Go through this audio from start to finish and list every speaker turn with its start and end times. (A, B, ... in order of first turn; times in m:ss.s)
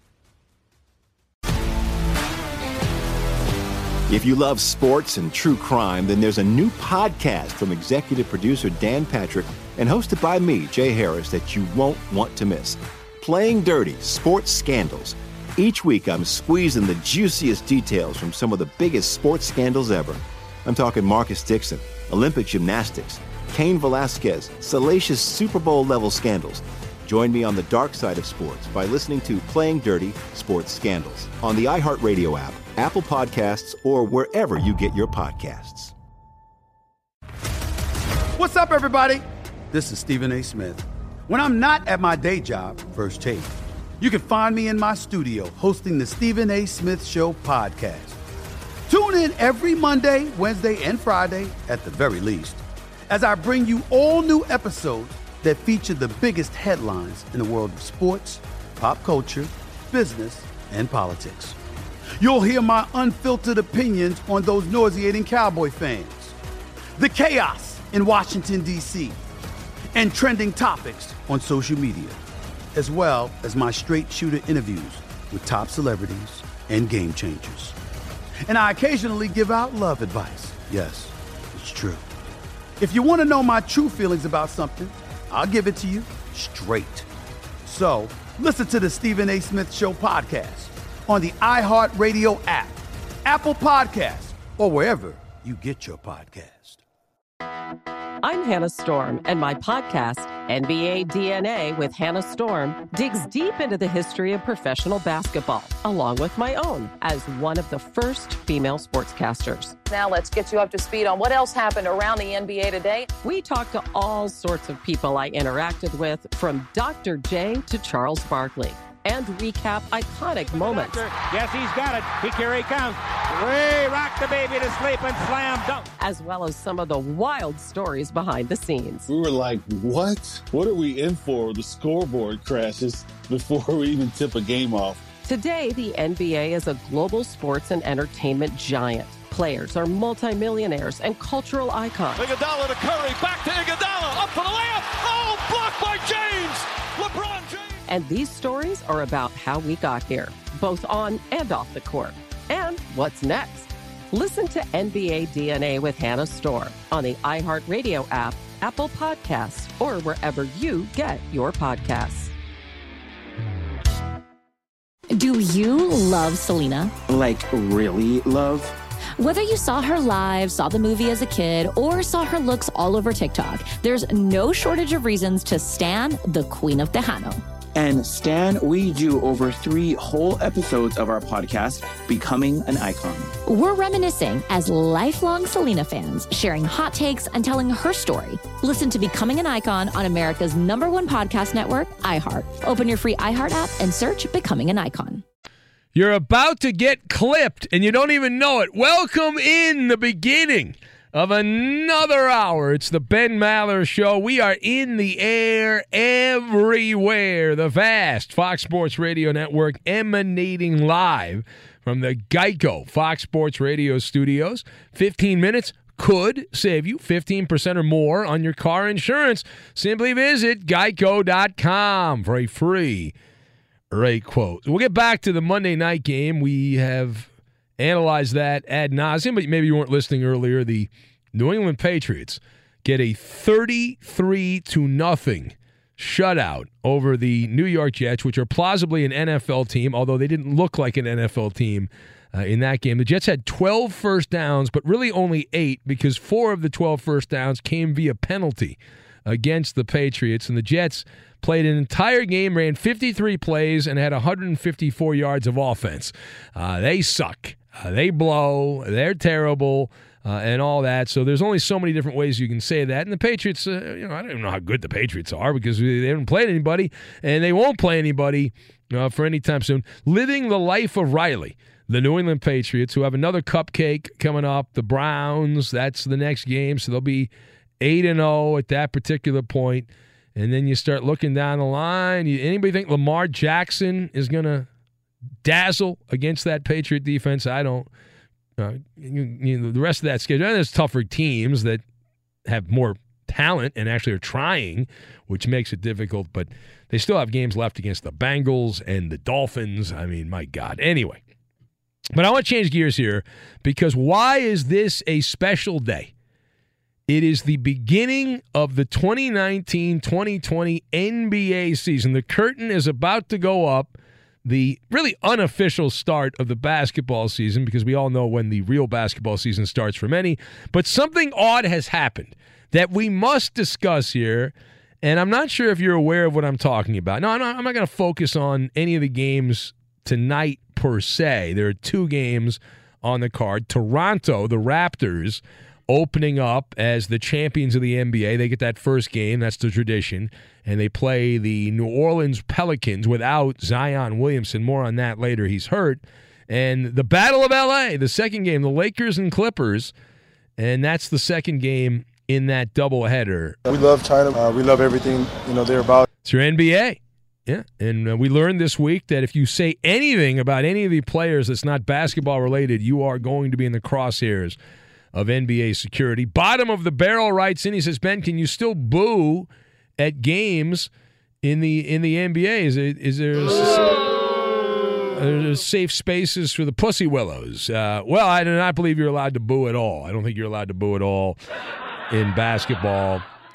0:04.1-0:35.9 A
0:38.4-0:48.2 B
0:48.9-1:01.6 B
1:02.2-1:06.4 B
1:07.0-1:09.2 B
1:09.9-1:12.2 B
1:12.7-1:17.7 B
1:18.5-1:22.0 B
1:22.8-1:27.1 B
1:27.6-1:36.8 B
1:38.2-1:49.8 C
1:49.9-1:53.1 D
1:53.2-2:01.1 C
2:00.6-2:05.9 E
2:06.0-2:09.1 C
2:09.1-2:15.0 F
2:15.2-2:22.2 C
2:22.2-2:27.8 G
2:27.9-2:42.3 C
2:45.1-2:46.9 H
2:47.1-2:48.7 I
2:49.2-2:57.4 H
2:57.8-3:03.3 I
3:03.4-3:15.2 H
3:15.9-3:43.1 J
3:43.9-4:44.7 J
4:45.4-4:47.9 J
4:48.6-4:51.8 J
4:52.5-5:01.2 J
5:02.1-5:06.1 J
5:07.1-5:49.9 J
5:50.6-5:53.6 J
5:53.7-5:56.0 K
5:56.2-6:04.6 J
6:05.1-6:10.9 J
6:11.4-6:14.1 J
6:15.1-6:21.4 J
6:22.1-6:23.2 J